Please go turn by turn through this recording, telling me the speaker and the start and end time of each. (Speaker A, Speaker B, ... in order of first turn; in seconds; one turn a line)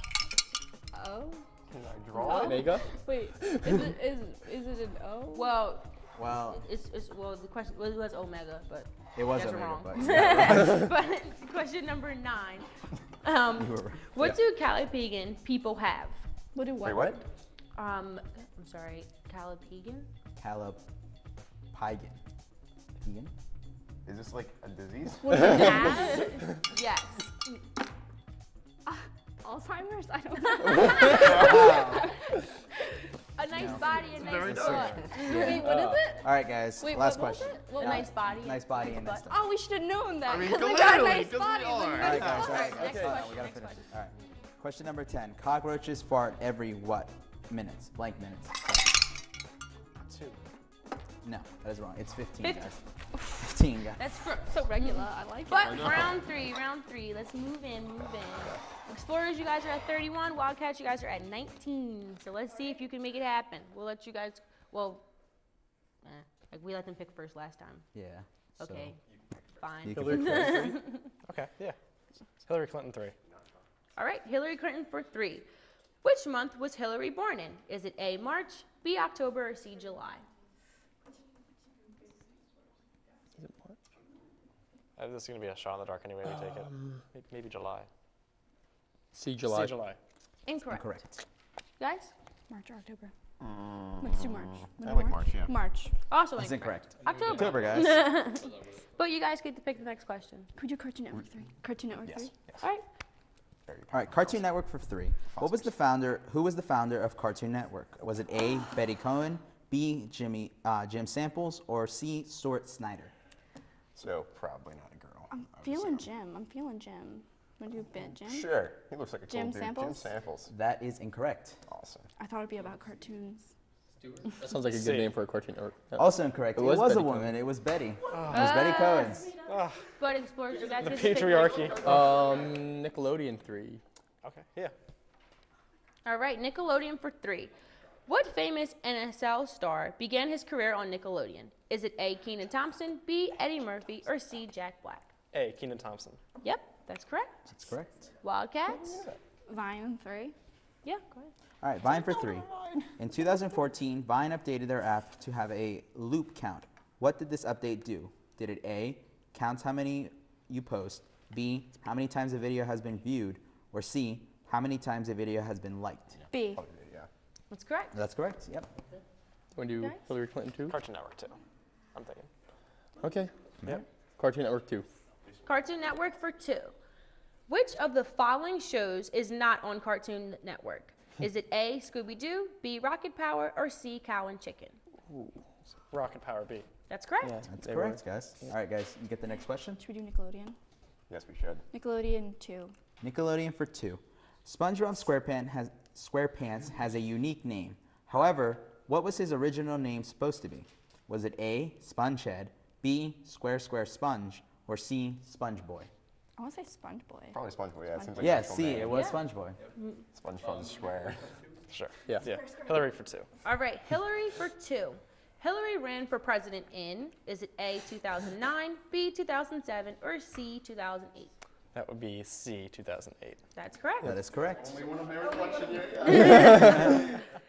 Speaker A: 0.9-1.4
Speaker B: 1.7-2.7
Speaker A: 2.1-5.5
Speaker C: 2.2-2.5
Speaker D: 2.3-2.9
Speaker C: 5.3-12.7
Speaker E: 6.2-6.6
Speaker E: 9.2-10.9
Speaker C: 13.2-16.2
Speaker E: 13.6-14.3
Speaker A: 16.6-17.2
Speaker B: 16.8-17.2
Speaker C: 17.8-20.1
Speaker E: 20.4-20.8
Speaker E: 21.7-22.2
Speaker E: 23.0-23.3
Speaker B: 24.1-26.0
Speaker A: 25.3-26.3
Speaker C: 25.3-27.5
Speaker A: 28.9-32.4
Speaker B: 31.1-31.6
Speaker E: 31.2-32.1
Speaker C: 33.4-35.6
Speaker E: 33.5-35.7
Speaker B: 34.1-35.2
Speaker A: 35.1-38.0
Speaker D: 35.5-36.1
Speaker E: 36.2-39.4
Speaker C: 37.6-39.2
Speaker A: 39.3-42.4
Speaker B: 40.2-42.7
Speaker E: 42.0-49.0
Speaker C: 42.0-43.8
Speaker F: 50.0-50.4
Speaker E: 51.2-54.0
Speaker C: 52.4-52.7
Speaker C: 54.0-65.0
Speaker A: 54.5-56.1
Speaker B: 55.6-56.2
Speaker C: 66.0-67.9
Speaker E: 67.9-68.9
Speaker C: 68.6-69.0
Speaker C: 69.6-71.1
Speaker E: 69.8-70.7
Speaker D: 69.9-70.8
Speaker F: 71.2-71.8
Speaker F: 72.4-73.2
Speaker C: 74.0-75.5
Speaker C: 76.0-80.2
Speaker D: 83.4-83.8
Speaker F: 85.0-87.9
Speaker D: 86.3-87.0
Speaker D: 89.1-89.8
Speaker F: 89.4-90.0
Speaker C: 90.5-91.0
Speaker E: 90.7-91.2
Speaker C: 91.8-92.1
Speaker A: 92.5-93.1
Speaker B: 93.4-95.6
Speaker A: 94.0-95.9
Speaker C: 96.1-100.5
Speaker E: 96.4-98.1
Speaker A: 100.6-102.3
Speaker B: 102.0-102.6
Speaker B: 103.7-104.5
Speaker E: 103.9-113.1
Speaker B: 105.3-105.7
Speaker B: 114.0-116.1
Speaker A: 115.3-118.5
Speaker B: 118.2-120.5
Speaker A: 119.3-120.1
Speaker E: 120.5-121.6
Speaker B: 121.7-122.1
Speaker A: 122.2-123.5
Speaker D: 124.2-127.3
Speaker F: 124.7-125.1
Speaker E: 126.0-129.3
Speaker F: 128.1-128.4
Speaker C: 128.3-129.3
Speaker F: 129.5-129.9
Speaker C: 130.0-131.7
Speaker B: 130.6-132.5
Speaker F: 130.8-131.9
Speaker D: 131.8-133.8
Speaker F: 134.2-134.7
Speaker C: 136.1-137.5
Speaker C: 138.1-145.1
Speaker F: 145.3-146.2
Speaker C: 146.4-147.5
Speaker E: 147.5-148.1
Speaker C: 148.2-149.0
Speaker B: 148.7-149.2
Speaker A: 149.5-150.3
Speaker C: 150.8-151.3
Speaker E: 151.6-166.2
Speaker B: 151.9-152.8
Speaker B: 166.2-167.1
Speaker A: 166.3-166.6
Speaker C: 167.5-167.9
Speaker E: 167.9-168.7
Speaker D: 169.6-170.8
Speaker F: 170.7-171.4
Speaker F: 171.9-172.3
Speaker D: 173.0-173.3
Speaker D: 174.2-174.9
Speaker C: 175.4-176.8
Speaker C: 177.5-184.8
Speaker D: 185.1-185.4
Speaker F: 185.9-186.7
Speaker C: 186.9-187.3
Speaker D: 187.2-188.5
Speaker E: 187.5-189.8
Speaker A: 189.8-190.6
Speaker B: 191.1-191.7
Speaker A: 191.7-192.7
Speaker E: 193.0-205.9
Speaker A: 206.4-208.8
Speaker B: 207.3-209.1
Speaker E: 208.2-209.6
Speaker C: 208.9-209.2
Speaker B: 210.1-211.4
Speaker F: 211.7-213.3
Speaker A: 212.4-212.8
Speaker C: 213.4-221.3
Speaker F: 221.7-223.4
Speaker C: 223.6-224.1
Speaker E: 224.0-224.8
Speaker B: 224.1-227.2
Speaker C: 226.1-227.1